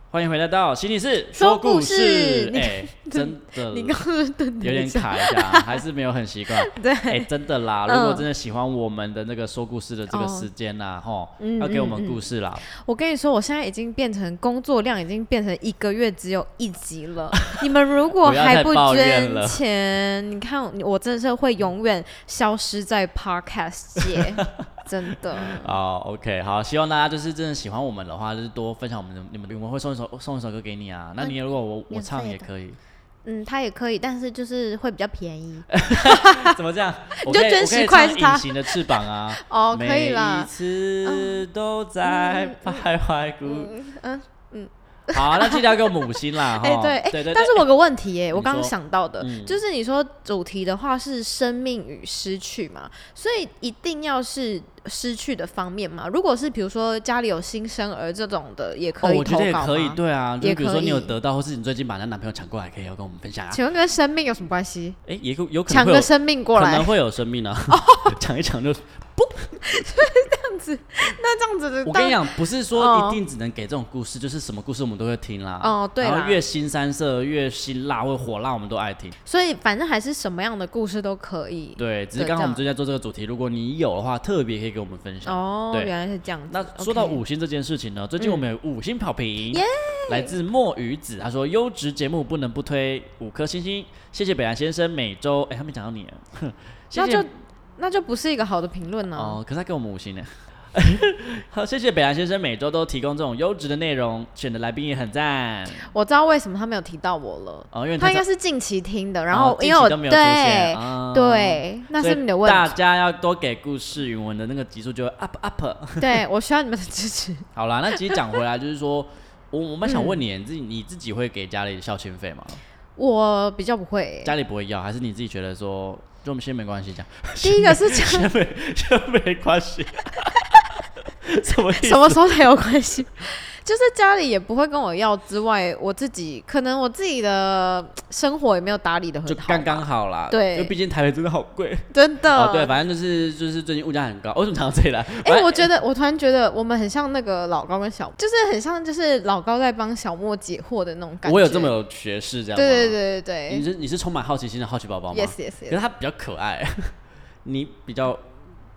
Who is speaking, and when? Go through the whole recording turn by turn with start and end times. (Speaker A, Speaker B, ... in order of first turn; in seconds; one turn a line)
Speaker A: 0.1-4.0
Speaker B: 1.3-5.8
Speaker A: 4.6-12.6
Speaker B: 6.6-7.3
Speaker B: 7.9-8.3
Speaker B: 10.1-10.5
Speaker B: 11.4-25.8
Speaker A: 18.2-19.6
Speaker A: 25.6-32.8
Speaker B: 31.9-32.5
Speaker B: 33.2-36.6
Speaker A: 35.7-43.7
Speaker B: 37.2-40.5
Speaker B: 41.0-41.4
Speaker B: 42.0-42.9
Speaker B: 43.4-61.1
Speaker A: 45.1-47.6
Speaker A: 48.3-49.6
Speaker A: 59.0-63.6
Speaker B: 63.5-65.0
Speaker A: 65.1-69.6
Speaker B: 65.7-67.0
Speaker B: 67.7-68.2
Speaker B: 69.6-73.2
Speaker A: 71.8-79.2
Speaker B: 75.6-76.4
Speaker B: 79.2-82.6
Speaker A: 81.8-85.9
Speaker B: 85.2-87.2
Speaker A: 86.5-97.3
Speaker B: 88.2-88.5
Speaker B: 89.5-90.3
Speaker B: 97.0-99.4
Speaker A: 99.2-105.9
Speaker B: 105.8-112.8
Speaker A: 107.7-108.2
Speaker A: 109.3-116.2
Speaker B: 116.0-117.5
Speaker A: 117.5-122.6
Speaker B: 119.8-120.2
Speaker B: 123.0-124.3
Speaker A: 124.2-132.4
Speaker B: 127.4-128.3
Speaker B: 131.7-140.8
Speaker A: 139.3-145.7
Speaker B: 141.9-142.8
Speaker B: 145.2-151.8
Speaker A: 151.2-153.0
Speaker B: 152.6-153.7
Speaker A: 153.5-156.9
Speaker B: 155.1-155.8
Speaker A: 157.4-158.2